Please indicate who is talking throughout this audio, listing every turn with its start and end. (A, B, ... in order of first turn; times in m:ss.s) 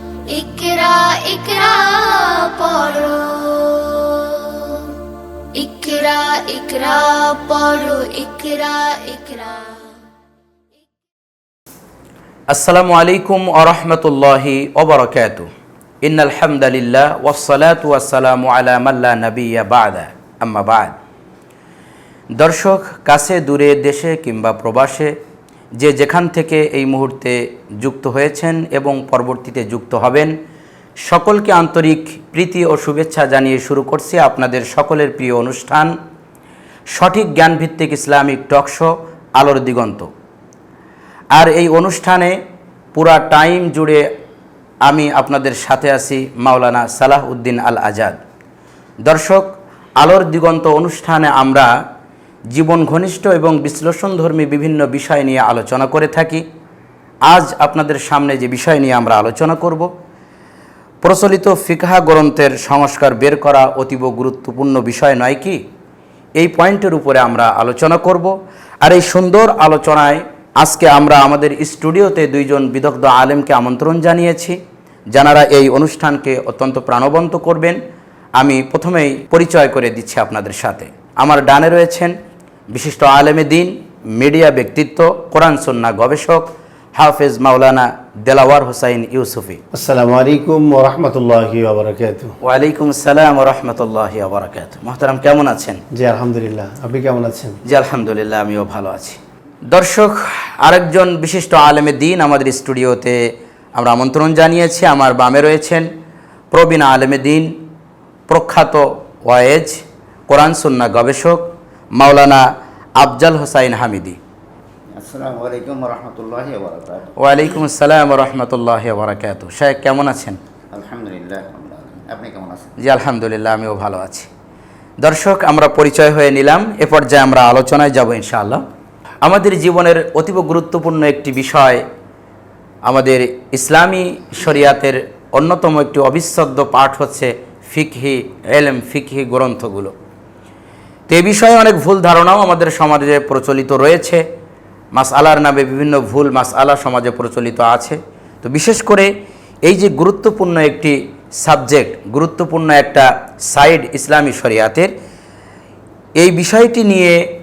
0:00.3-0:04.8 A
0:05.5-0:09.8 A
0:12.5-0:15.5 B
0:16.0-0:20.9 B
0:22.4-0:25.1 B
0:25.8-0:30.3 B
0:31.0-0:35.9 B
0:36.9-0:40.1 B
0:41.3-0:42.3 B
0:42.9-0:44.0 B
0:44.9-0:48.2 B
0:49.0-0:49.4 B
0:50.0-0:51.7 B
0:52.5-0:56.4 B
0:57.2-0:59.9 B
1:01.0-1:05.6 B
1:06.4-1:14.6 B
1:15.1-1:17.8 B
1:18.4-1:22.1 B
1:22.7-1:29.6 B
1:29.7-1:32.3 C
1:32.4-1:35.8 B
1:35.9-1:37.6 C
1:37.7-1:39.2 B
1:39.7-1:43.2 B
1:43.7-1:45.8 B
1:46.5-1:47.5 B
1:48.3-1:51.4 B
1:52.0-1:52.4 B
1:53.0-1:54.2 B
1:55.0-1:57.1 D
1:57.2-2:00.4 B
2:00.7-2:02.7 D
2:02.8-2:04.3 B
2:05.0-2:08.6 B
2:09.2-2:11.8 B
2:12.8-2:19.9 B
2:21.1-2:24.2 B
2:24.9-2:29.1 B
2:29.6-2:34.9 B
2:36.2-2:37.2 B